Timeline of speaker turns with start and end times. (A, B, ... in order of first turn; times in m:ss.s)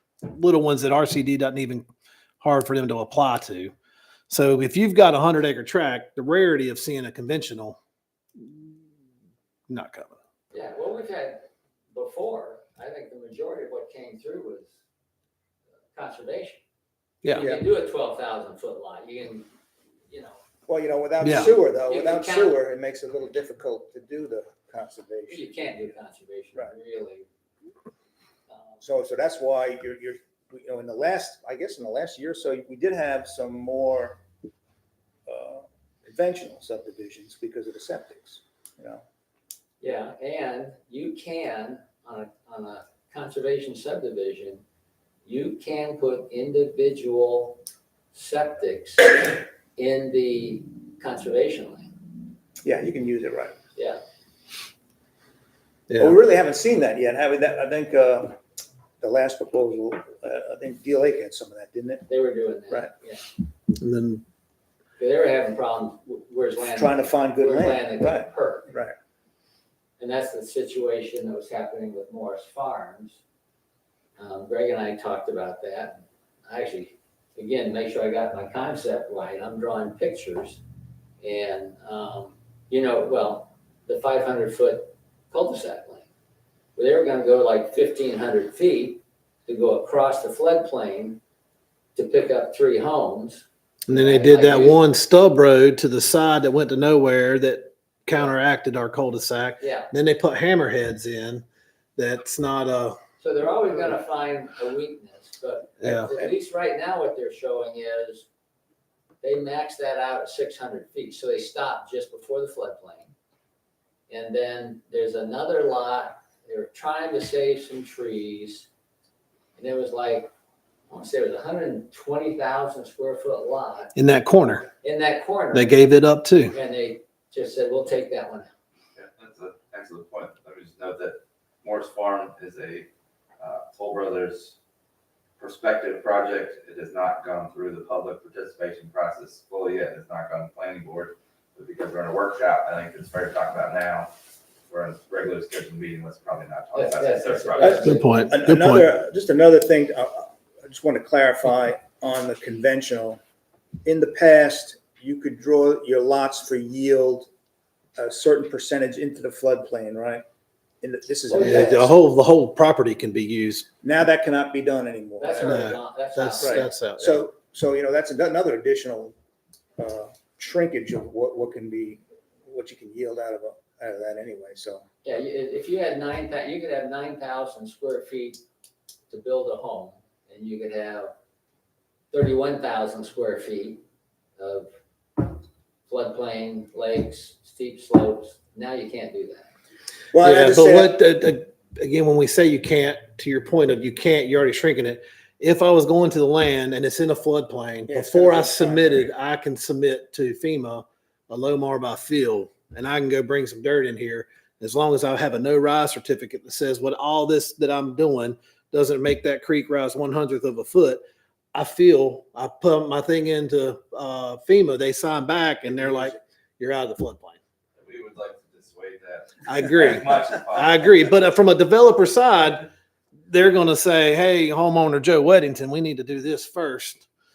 0:00.2-0:01.8 A
0:02.4-0:03.7 A
0:04.3-0:07.8 A
0:08.4-0:08.8 A
0:09.7-0:10.2 A
0:10.5-0:11.4 B
0:11.9-0:14.7 B
0:15.9-0:16.6 B
0:17.2-0:17.5 A
0:17.2-0:19.5 B
0:20.1-0:20.4 B
0:20.7-0:25.5 C
0:21.2-0:21.5 A
0:21.9-0:22.6 B
0:25.3-0:27.3 B
0:28.5-0:28.8 B
0:28.8-0:34.2 C
0:35.3-0:39.0 C
0:39.8-0:44.6 B
0:45.2-0:47.6 B
0:48.1-0:51.9 B
0:52.6-0:53.6 C
0:55.9-0:56.2 A
0:56.0-0:58.4 C
0:59.0-1:02.1 C
1:02.1-1:03.3 B
1:03.7-1:04.2 A
1:05.0-1:08.7 B
1:06.6-1:08.9 C
1:10.0-1:13.2 B
1:14.2-1:20.6 B
1:21.2-1:26.1 B
1:26.8-1:31.2 B
1:32.0-1:34.8 B
1:33.9-1:41.4 A
1:39.6-1:39.9 B
1:42.0-1:43.0 A
1:43.2-1:48.3 B
1:45.8-1:46.1 A
1:49.2-1:53.1 B
1:54.1-1:58.7 B
1:59.6-2:00.3 B
2:00.9-2:04.0 B
2:04.0-2:04.7 A
2:04.8-2:05.8 B
2:05.5-2:06.6 A
2:06.5-2:08.5 B
2:09.0-2:12.9 D
2:13.4-2:14.6 D
2:15.4-2:24.1 D
2:24.7-2:28.0 D
2:26.7-2:28.3 B
2:27.6-2:33.2 C
2:27.8-2:28.9 A
2:33.8-2:37.3 C
2:38.0-2:40.2 C
2:40.8-2:41.9 C
2:41.3-2:41.8 B
2:41.4-2:43.7 A
2:43.8-2:45.7 C
2:45.2-2:46.7 B
2:45.4-2:47.2 A
2:46.4-2:49.2 C
2:49.8-2:54.8 C
2:55.0-2:58.4 B
2:59.1-3:01.1 B
3:02.1-3:03.8 B
3:04.4-3:09.5 B
3:10.1-3:11.0 C
3:10.2-3:31.0 A
3:17.9-3:19.1 C
3:31.5-3:37.4 A
3:37.8-3:41.2 D
3:39.5-3:42.7 A
3:43.3-3:47.1 A